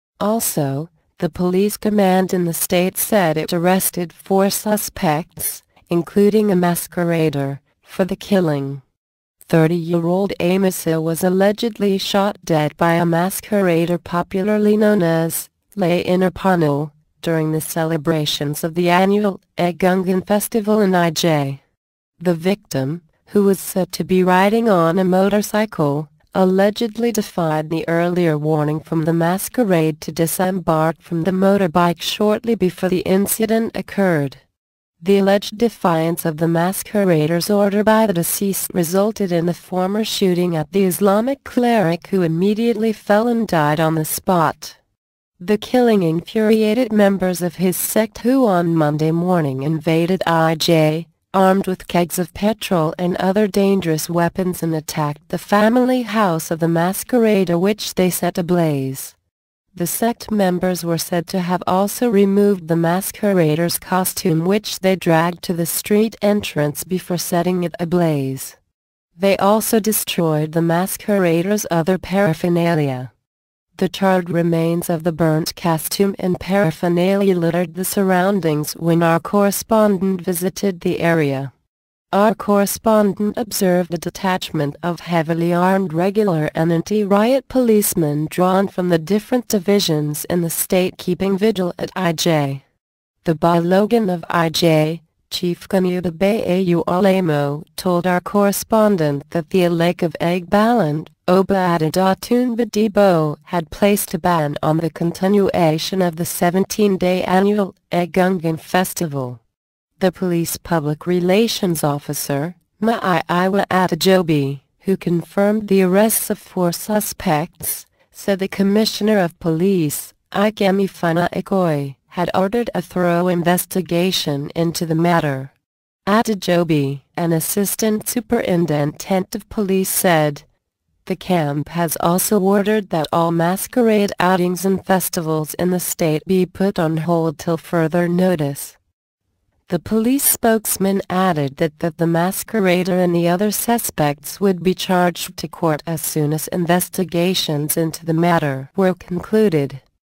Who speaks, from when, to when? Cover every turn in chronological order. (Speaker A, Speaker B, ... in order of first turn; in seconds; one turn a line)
Speaker A: 0.2-8.8
Speaker A: 9.4-21.6
Speaker A: 22.2-34.4
Speaker A: 35.0-44.8
Speaker A: 45.4-59.1
Speaker A: 59.7-68.6
Speaker A: 69.2-73.1
Speaker A: 73.8-81.5
Speaker A: 82.1-92.6
Speaker A: 93.2-109.4
Speaker A: 110.0-125.5
Speaker A: 126.0-130.4
Speaker A: 131.0-138.8
Speaker A: 139.7-149.8